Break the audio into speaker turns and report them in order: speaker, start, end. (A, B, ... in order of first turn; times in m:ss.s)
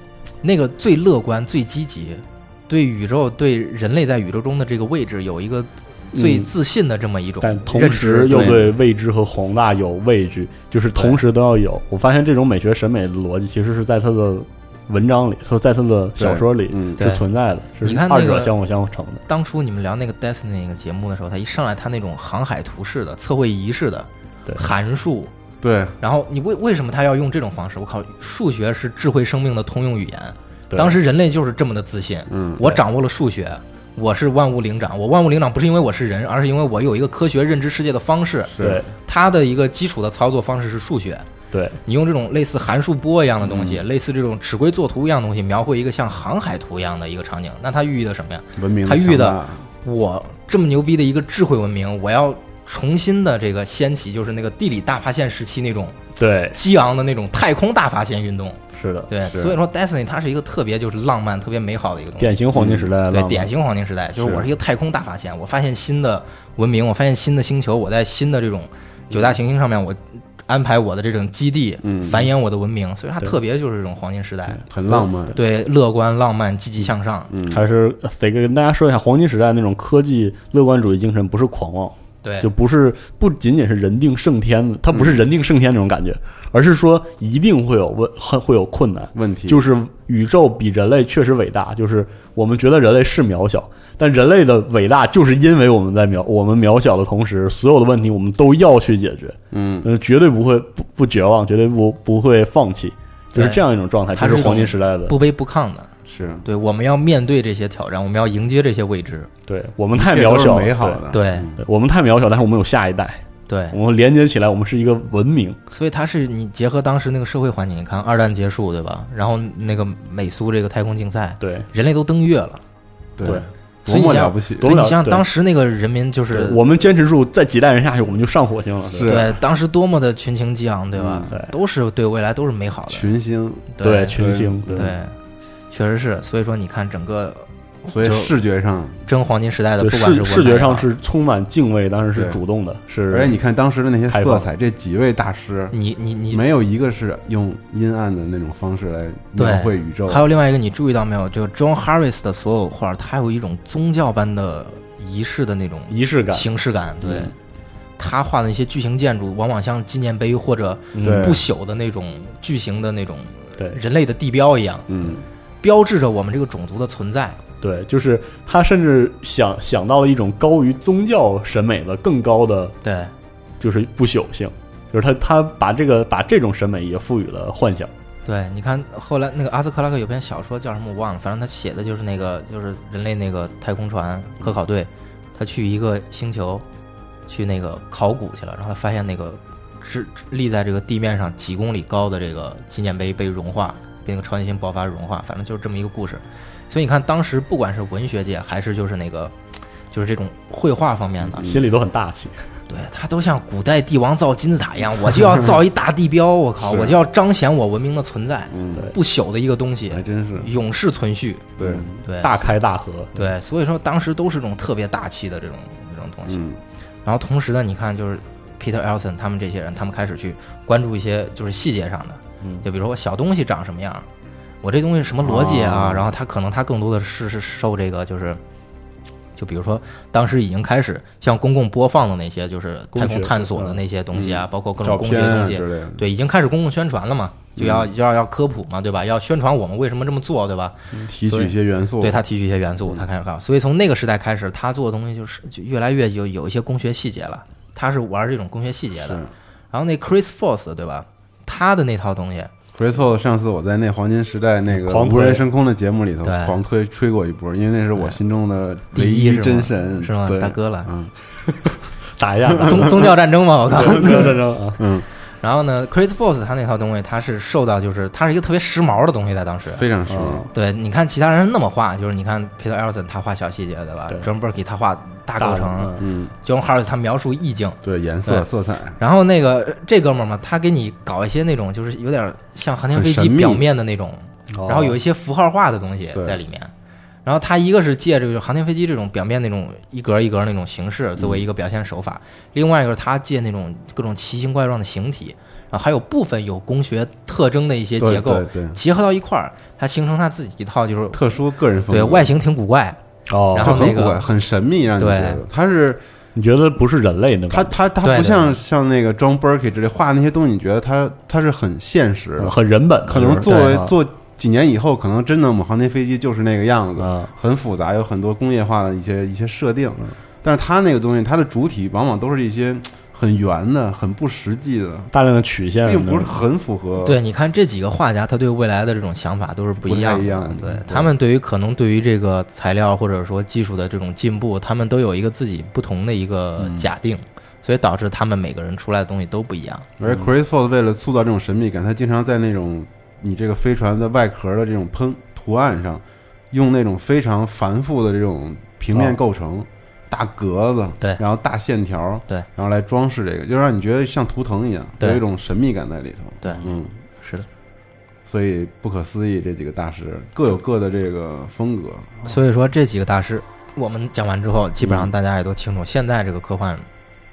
0:00.4-0:08.7 A
0:06.1-0:06.5 B
0:07.4-0:19.2 B
0:10.9-0:11.2 A
0:16.2-0:17.0 C
0:17.0-0:17.2 A
0:17.8-0:18.5 A
0:19.3-0:25.3 A
0:25.6-0:26.0 C
0:26.0-0:41.3 A
0:30.7-0:31.0 B
0:32.3-0:32.6 C
0:38.5-0:38.8 C
0:38.6-0:38.9 B
0:41.5-0:41.8 B
0:41.8-0:56.0 A
0:43.4-0:43.8 C
0:48.6-0:49.7 C
0:56.2-0:56.6 B
0:56.5-1:02.4 A
0:58.7-0:59.1 B
0:59.2-0:59.6 C
1:02.2-1:03.5 B
1:02.5-1:02.9 C
1:03.1-1:14.6 A
1:04.2-1:04.4 C
1:11.8-1:12.3 C
1:14.7-1:15.4 C
1:15.3-1:17.3 A
1:17.3-1:17.6 C
1:17.5-1:45.2 B
1:22.2-1:22.5 A
1:24.9-1:25.2 C
1:29.1-1:29.6 C
1:39.5-1:39.9 C
1:43.3-1:43.6 A
1:44.1-1:45.9 A
1:46.0-1:46.4 C
1:46.4-1:49.3 A
1:49.5-1:51.0 B
1:49.9-1:51.6 C
1:51.1-1:51.5 A
1:51.6-1:55.6 B
1:53.5-1:53.8 A
1:55.7-2:02.6 A
2:01.4-2:01.7 B
2:03.2-2:04.7 C
2:03.3-2:06.6 A
2:04.6-2:05.2 B
2:06.3-2:09.2 B
2:08.9-2:09.4 C
2:09.0-2:13.1 A
2:11.0-2:11.3 C
2:12.9-2:15.0 C
2:13.8-2:14.2 A
2:13.8-2:14.9 B
2:14.7-2:15.1 A
2:15.7-2:18.3 A
2:17.9-2:19.0 C
2:19.0-2:20.9 A
2:19.8-2:23.4 B
2:23.1-2:25.7 C
2:24.1-2:24.5 B
2:25.7-2:26.4 A
2:26.3-2:30.2 C
2:29.4-2:37.3 A
2:35.9-2:36.5 B
2:38.0-2:44.9 A
2:40.9-2:41.4 B
2:41.0-2:41.4 C
2:44.9-2:45.2 C
2:45.6-2:47.4 A
2:47.6-2:52.8 B
2:52.8-2:53.1 A
2:53.6-2:57.9 B
2:58.2-3:06.6 A
3:07.3-3:19.3 A
3:19.9-3:21.5 A
3:21.3-3:22.5 B
3:21.4-3:21.6 C
3:22.7-3:31.5 A
3:26.6-3:27.0 C
3:28.5-3:28.9 C
3:29.9-3:30.5 C
3:31.6-3:31.9 C
3:31.6-3:33.3 B
3:32.0-3:32.5 A
3:33.1-3:36.4 A
3:36.3-3:36.6 C
3:37.0-3:44.1 A
3:44.6-3:48.4 A
3:45.2-3:46.1 C
3:49.4-4:12.5 A
3:52.9-3:53.8 B
3:54.1-3:56.0 C
3:57.6-3:57.9 C
4:01.0-4:02.2 C
4:09.0-4:09.3 C
4:12.7-4:21.1 C
4:14.8-4:15.4 B
4:16.2-4:16.6 A
4:18.9-4:20.9 A
4:21.5-4:23.1 B
4:22.5-4:22.9 C
4:22.6-4:24.4 A
4:23.8-4:24.8 B
4:23.9-4:25.0 C
4:25.3-4:29.8 A
4:29.7-4:30.5 C
4:30.1-4:30.5 B
4:30.5-4:38.5 A
4:35.4-4:36.0 B
4:36.0-4:36.3 C
4:37.8-4:39.0 C
4:39.0-4:46.7 A
4:42.9-4:43.6 C
4:44.5-4:45.0 B
4:46.1-4:46.4 C
4:47.2-5:01.3 A
4:51.2-4:51.4 C
4:58.0-4:58.8 C
5:01.1-5:02.3 C
5:01.9-5:03.0 A
5:03.3-5:04.0 B
5:03.5-5:04.2 A
5:03.6-5:06.0 C
5:05.0-5:05.4 A
5:06.3-5:07.8 B
5:07.5-5:25.1 C
5:08.0-5:08.5 A
5:12.4-5:13.9 B
5:17.0-5:17.3 B
5:25.1-5:26.4 B
5:25.8-5:27.2 C
5:27.0-5:39.9 A
5:29.8-5:31.1 C
5:36.6-5:36.9 C
5:40.0-5:56.9 C
5:56.4-5:56.7 A
5:57.2-5:57.5 A
5:58.2-6:02.3 C
6:02.2-6:06.9 A
6:04.8-6:05.1 C